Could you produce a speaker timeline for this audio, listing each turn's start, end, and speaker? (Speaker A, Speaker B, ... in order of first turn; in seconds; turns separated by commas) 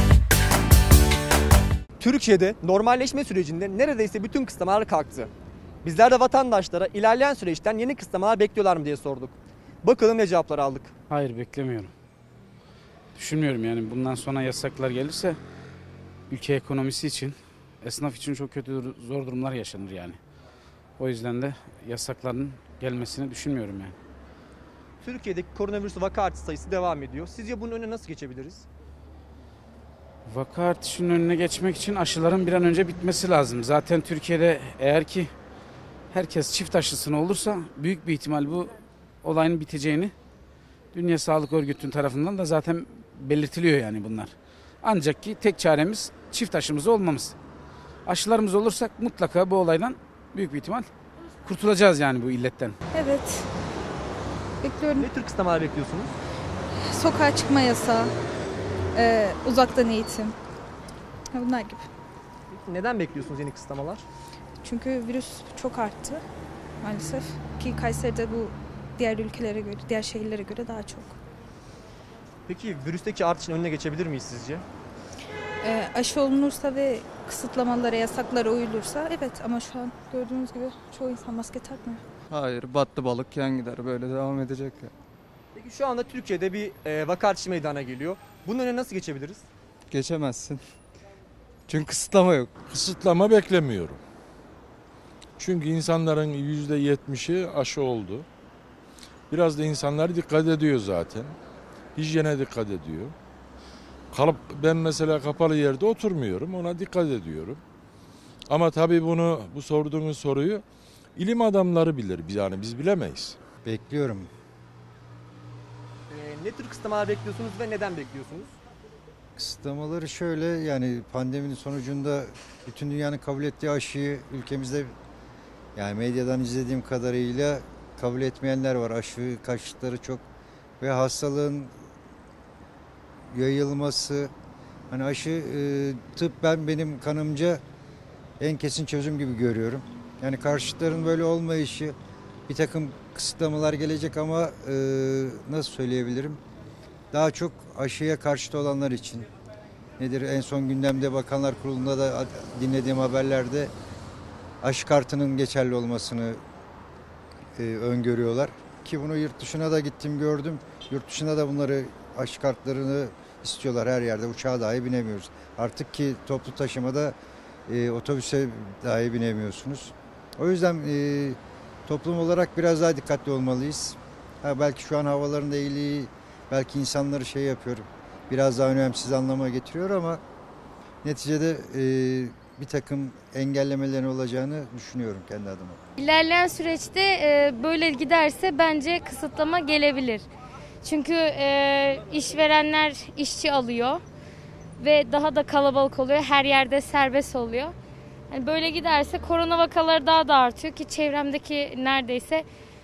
Speaker A: 2.0-5.3, Speaker A: 5.8-10.9, Speaker B: 11.1-11.9, Speaker B: 13.2-15.4, Speaker B: 16.3-20.2, Speaker B: 21.0-23.9, Speaker A: 25.0-28.7, Speaker B: 30.3-35.3, Speaker B: 36.1-40.1, Speaker B: 40.9-47.4, Speaker B: 48.1-50.9, Speaker B: 51.5-52.8, Speaker C: 52.9-53.5, Speaker C: 54.6-55.1, Speaker A: 55.0-56.1, Speaker C: 56.9-58.1, Speaker C: 59.0-60.4, Speaker C: 61.3-61.9, Speaker A: 62.5-64.1, Speaker C: 64.6-66.2, Speaker C: 66.8-71.2, Speaker A: 72.5-74.6, Speaker C: 75.6-82.0, Speaker D: 82.3-84.9, Speaker A: 85.5-89.5, Speaker D: 89.9-90.6, Speaker D: 91.7-92.5, Speaker E: 92.7-94.0, Speaker E: 95.4-98.3, Speaker E: 99.3-101.4, Speaker E: 102.0-103.1, Speaker E: 104.1-107.6, Speaker E: 108.5-110.6, Speaker E: 111.2-113.4, Speaker F: 113.7-114.3, Speaker A: 116.1-118.5, Speaker F: 119.4-124.9, Speaker F: 125.8-130.2, Speaker F: 130.8-131.7, Speaker F: 133.3-134.3, Speaker F: 134.9-137.6, Speaker F: 138.4-141.9, Speaker F: 142.5-146.4, Speaker F: 147.1-149.3, Speaker F: 150.0-153.7, Speaker F: 154.6-156.4, Speaker F: 157.6-167.2, Speaker F: 167.7-180.2, Speaker F: 181.0-185.8, Speaker G: 186.0-190.2, Speaker G: 190.8-194.0, Speaker G: 194.8-197.7, Speaker G: 198.3-202.4